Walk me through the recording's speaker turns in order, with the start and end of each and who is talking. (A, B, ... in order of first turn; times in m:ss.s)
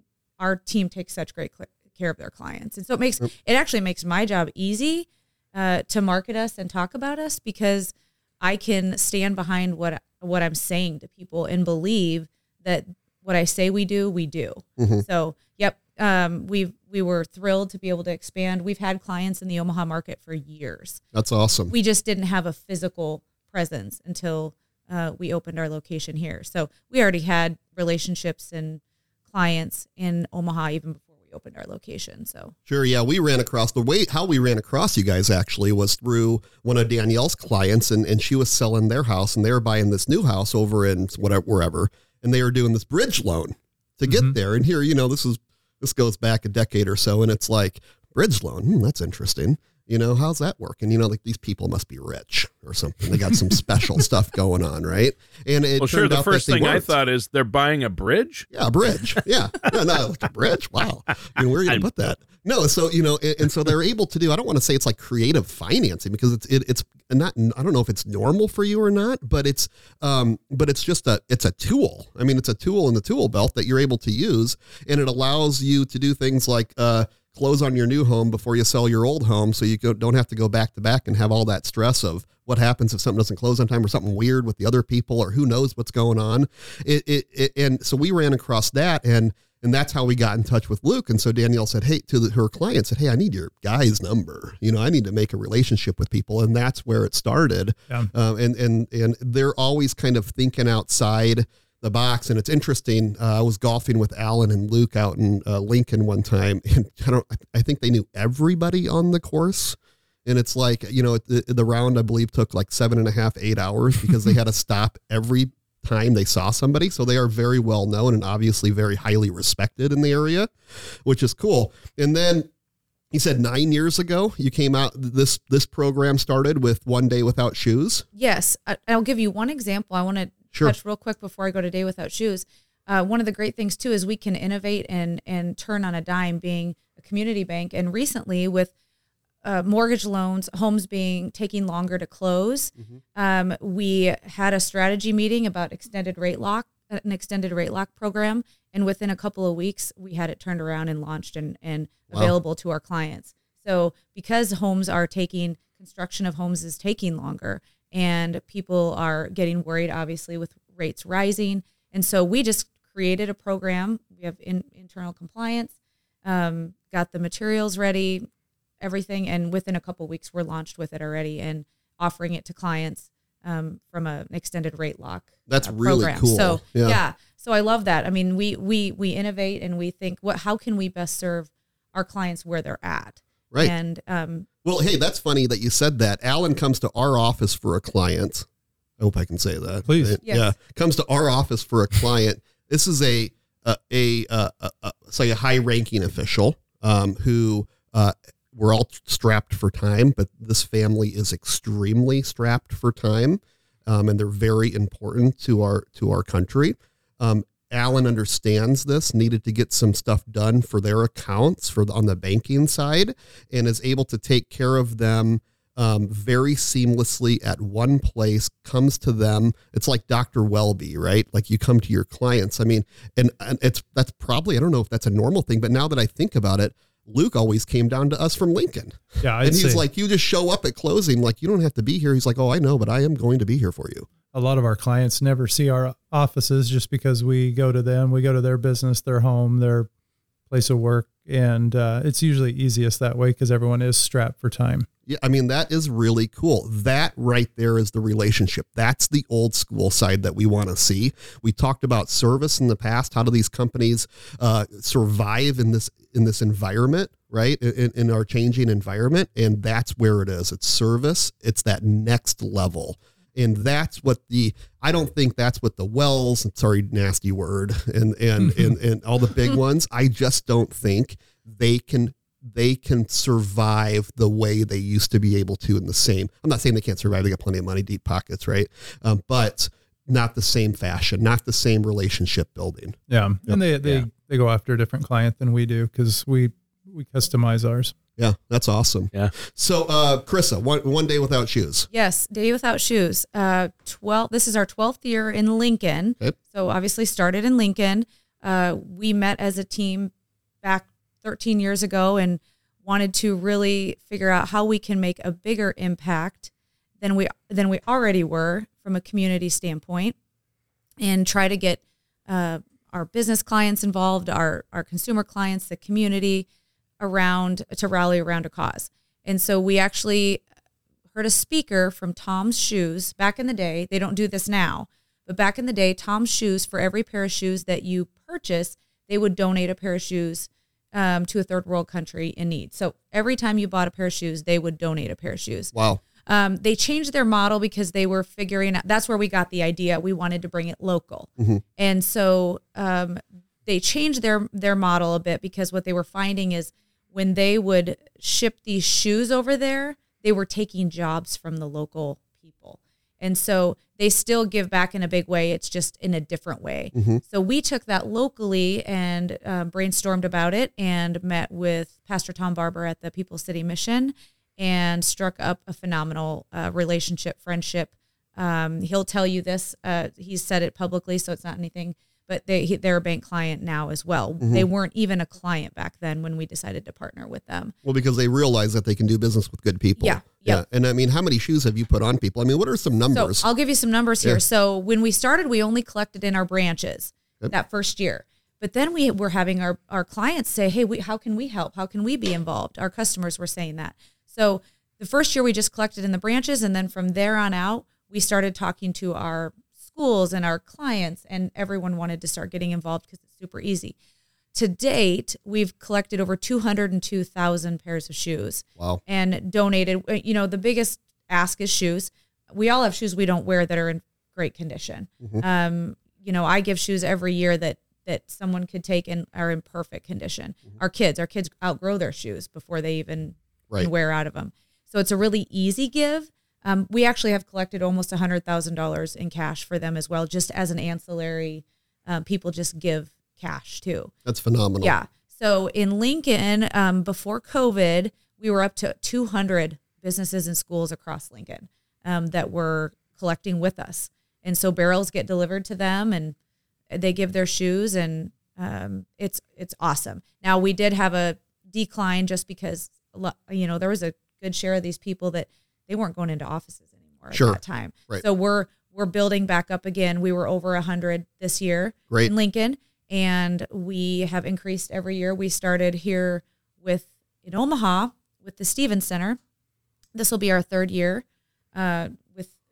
0:00.4-0:21.0 A
0:14.8-0:15.0 B
0:21.1-0:21.7 B
0:21.7-0:32.5 A
0:32.7-0:56.9 B
0:44.1-0:44.3 C
0:55.8-0:58.5 D
0:58.5-2:00.5 B
2:01.0-2:02.5 B
2:03.1-2:08.0 B
2:08.1-2:18.7 A
2:19.4-2:48.3 A
2:48.8-3:04.5 A
2:55.5-2:57.0 B
3:04.6-3:08.4 B
3:09.0-3:54.1 B
3:09.8-3:10.2 C
3:10.2-3:10.5 A
3:49.2-3:49.8 C
3:54.3-3:59.9 C
4:00.5-4:04.9 C
4:05.1-4:44.0 B
4:28.4-4:28.7 C
4:43.1-4:47.9 C
4:48.2-4:51.9 B
4:51.9-5:10.2 A
5:11.0-5:16.5 A
5:17.0-5:20.4 A
5:21.1-6:17.7 A
5:35.7-5:36.0 B
5:56.9-5:57.2 B
6:14.4-6:14.6 B
6:17.8-6:23.4 B
6:20.0-6:20.6 A
6:23.1-6:44.0 A
6:44.5-7:14.1 A
7:14.2-7:14.9 B
7:14.8-7:26.3 A
7:26.9-7:49.4 A
7:37.3-7:38.2 B
7:50.1-7:52.5 A